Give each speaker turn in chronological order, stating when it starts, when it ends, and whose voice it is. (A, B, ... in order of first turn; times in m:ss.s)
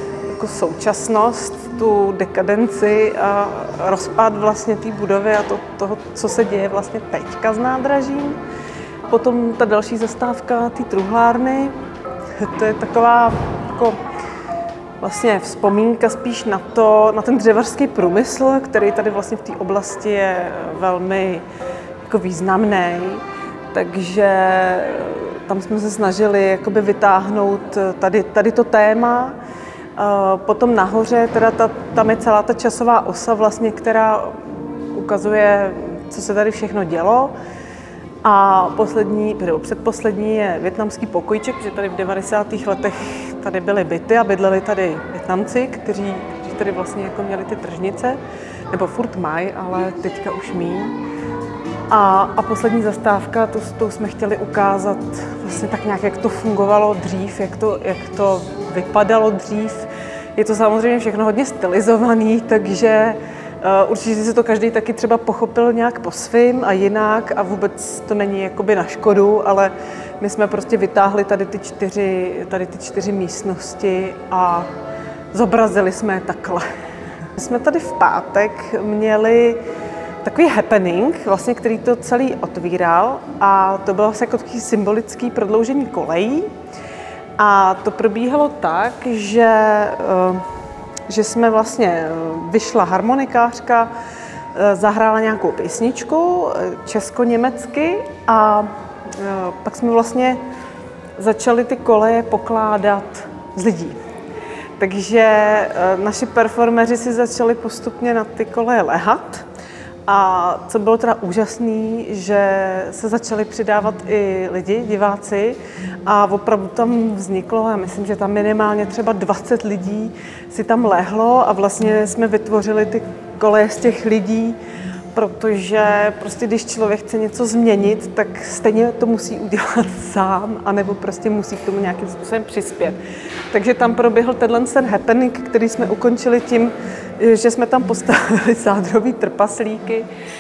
0:00.3-0:08.4 A
0:09.1-0:11.7 A
0:12.4-0:14.0 A
0:15.0-0:21.4 A
0:22.1-0:29.4 A
0:30.0-0:37.3 A
0:38.2-0:48.2 A
0:48.7-0:51.0 A
0:51.9-1:14.7 A
1:15.3-1:16.7 A
1:17.4-1:19.6 A
1:20.2-1:26.5 A
1:27.4-1:30.4 A
1:31.1-1:33.9 A
1:34.6-1:40.4 A
1:41.2-1:44.0 A
1:44.8-1:49.4 A
1:50.1-2:04.6 A
2:05.1-2:13.0 A
2:13.5-2:20.1 A